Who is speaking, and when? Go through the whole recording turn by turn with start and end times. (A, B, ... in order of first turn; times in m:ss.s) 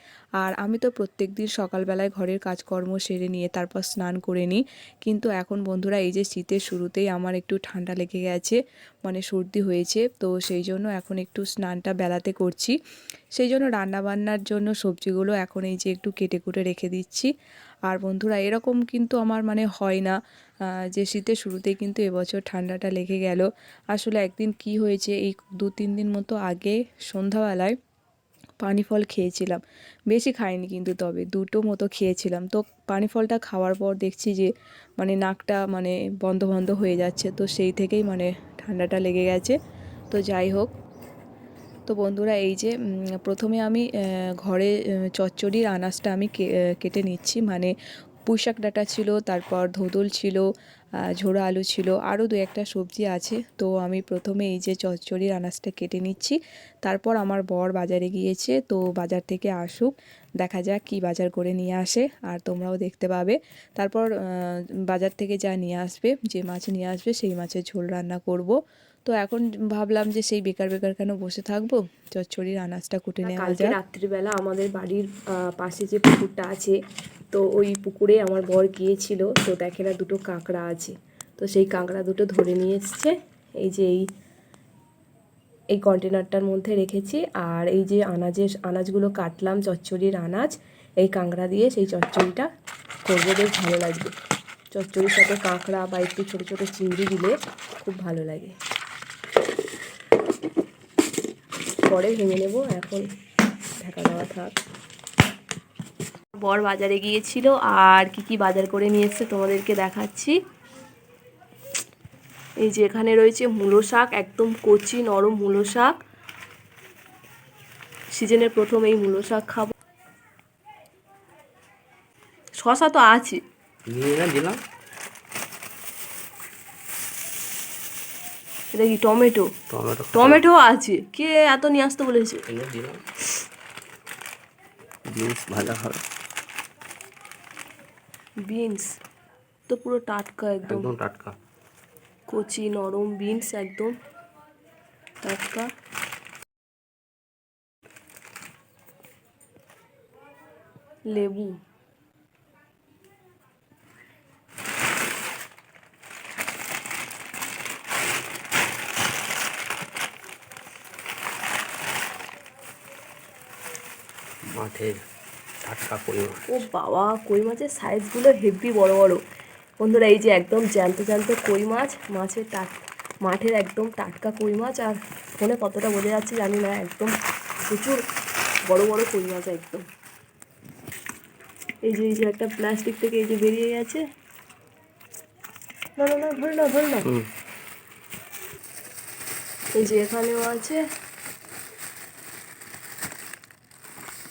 0:00.4-0:12.7 A
0:13.4-0:17.3 A
0:17.9-0:20.2 A
0:20.9-0:27.8 A
0:28.6-0:39.6 A
0:40.1-0:40.7 A
0:41.9-0:43.8 A
0:44.4-0:47.7 A
0:48.3-0:50.4 A
0:51.2-1:08.5 A
1:09.0-1:13.8 A
1:13.2-1:16.8 B
1:17.3-1:24.0 B
1:25.7-1:30.5 B
1:31.0-1:32.5 B
1:33.0-1:34.1 B
1:34.7-1:38.5 B
1:41.9-1:43.1 B
1:43.8-1:44.5 B
1:46.4-1:50.4 B
1:52.6-1:56.0 B
1:58.1-1:59.7 B
2:02.6-2:03.4 B
2:03.9-2:04.6 C
2:08.7-2:09.5 B
2:09.7-2:10.4 C
2:10.1-2:12.4 B
2:12.5-2:13.0 C
2:15.1-2:16.0 C
2:18.5-2:18.9 B
2:19.7-2:20.9 B
2:20.6-2:21.3 C
2:22.3-2:23.9 B
2:25.2-2:25.7 B
2:31.1-2:31.6 B
2:44.5-2:45.0 C
2:45.6-2:46.6 C
2:46.5-2:49.2 B
2:49.8-2:57.1 B
2:57.7-2:58.0 B
2:58.7-2:59.8 B
3:01.9-3:04.0 B
3:06.0-3:07.1 B
3:09.7-3:10.8 B